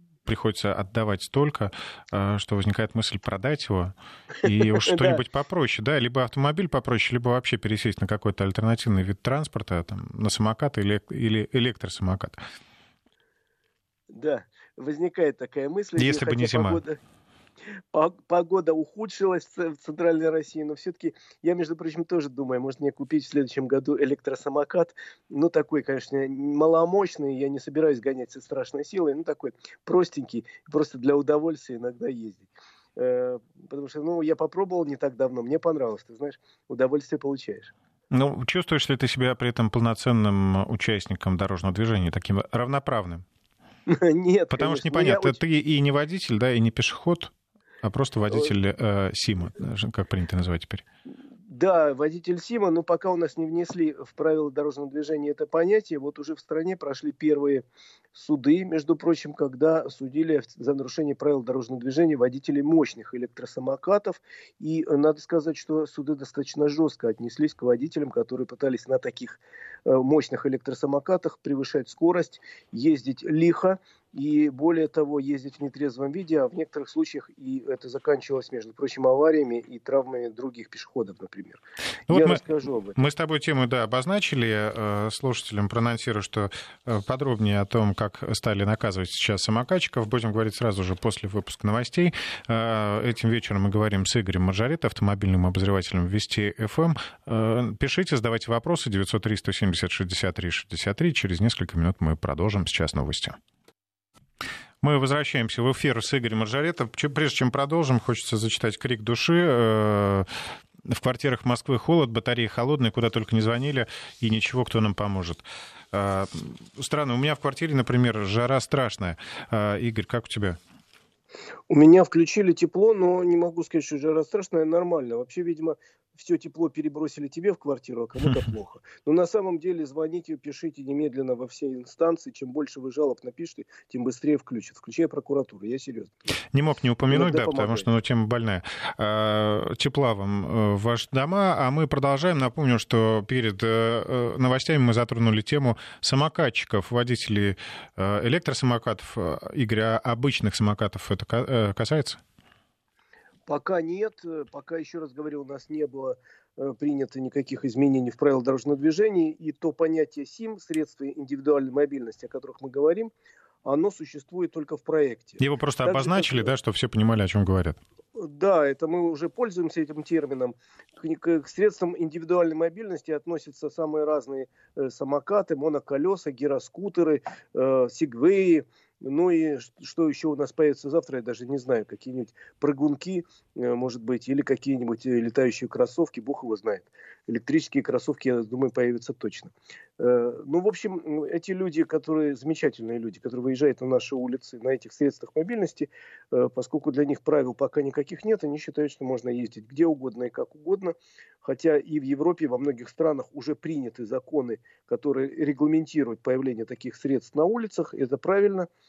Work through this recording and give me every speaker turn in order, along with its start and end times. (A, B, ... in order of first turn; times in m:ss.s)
0:00.3-0:12.4 A
0:04.7-0:05.2 B
0:14.1-0:17.0 B
0:16.0-0:16.8 A
0:17.7-0:37.7 B
0:38.1-0:43.2 A
0:43.9-0:45.4 B
0:44.5-0:50.8 A
0:51.5-1:23.0 B
1:22.1-1:22.4 A
1:23.0-1:43.4 A
1:44.8-1:50.3 A
1:50.9-2:00.6 A
2:01.7-2:16.2 B
2:16.5-2:32.2 A
2:17.1-2:17.9 B
2:33.5-2:43.1 B
2:43.6-2:46.5 B
2:45.4-2:47.8 A
2:48.2-3:28.7 B